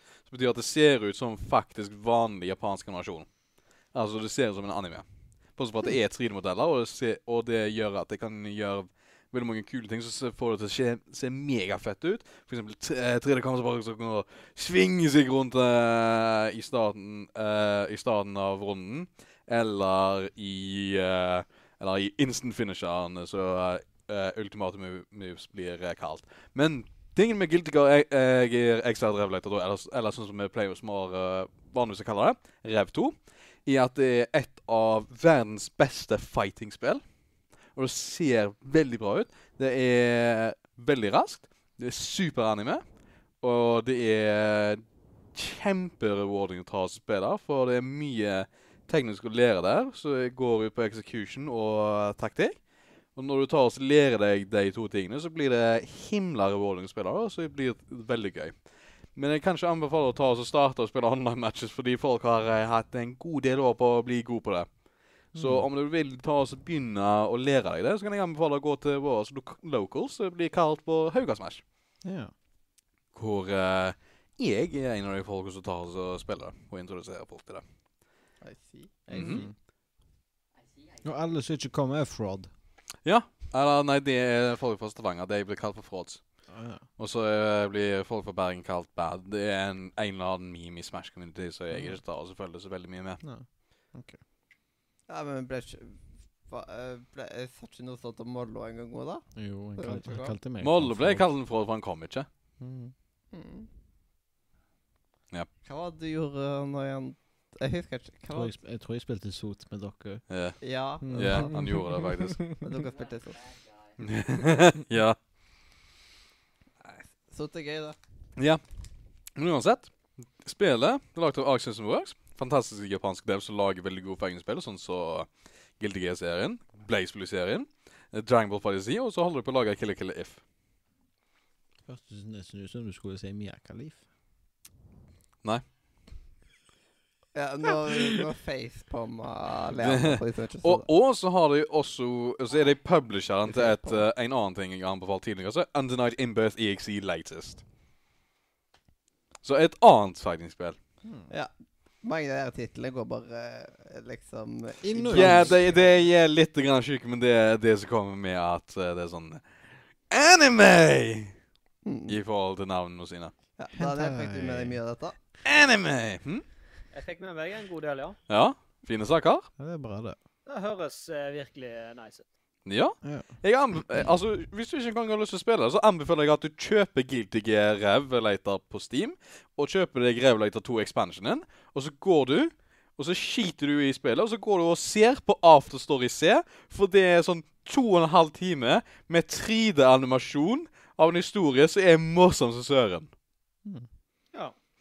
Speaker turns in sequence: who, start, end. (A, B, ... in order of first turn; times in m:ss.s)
0:00.2-0:03.3 A
0:03.9-0:05.0 A
0:05.6-0:33.1 A
0:33.6-0:37.0 A
0:37.7-0:42.8 A
0:43.4-0:44.8 A
0:45.3-0:52.6 A
0:53.2-0:58.5 A
0:59.1-1:04.7 A
1:05.3-1:11.6 A
1:05.3-1:05.6 B
1:12.0-1:12.3 B
1:13.1-1:17.6 A
1:18.4-1:19.4 C
1:19.1-1:19.5 B
1:19.1-1:19.4 A
1:20.5-1:21.4 D
1:21.0-1:22.5 B
1:23.0-1:26.2 A
1:26.5-1:26.8 B
1:27.0-1:33.2 A
1:31.7-1:32.0 B
1:33.2-1:34.2 B
1:35.1-1:39.2 C
1:39.4-1:41.2 B
1:39.8-1:40.3 C
1:40.6-1:42.3 A
1:42.6-1:42.9 B
1:43.3-1:43.7 C
1:45.6-1:48.5 C
1:48.3-1:50.2 B
1:50.3-1:50.6 A
1:50.6-1:51.5 C
1:51.0-1:52.6 B
1:51.1-1:52.4 A
1:52.6-1:53.4 C
1:52.8-1:54.0 D
1:54.0-1:55.2 A
1:56.8-1:58.0 C
1:58.4-1:58.6 A
1:59.4-2:10.4 A
2:11.9-2:14.0 B
2:17.3-2:20.9 C
2:19.8-2:27.6 A
2:23.6-2:23.9 C
2:29.4-2:30.8 A
2:31.0-2:31.3 B
2:32.0-2:36.0 C
2:34.8-2:35.6 B
2:35.1-2:39.4 A
2:40.1-2:41.3 A
2:41.8-2:42.2 C
2:42.1-2:43.3 A
2:43.6-2:45.2 C
2:43.7-2:44.8 B
2:45.4-2:46.4 A
2:46.9-2:48.2 E
2:48.3-2:49.5 A
2:49.6-2:50.2 B
2:50.4-2:52.2 E
2:52.6-3:13.1 A
2:53.0-2:53.3 B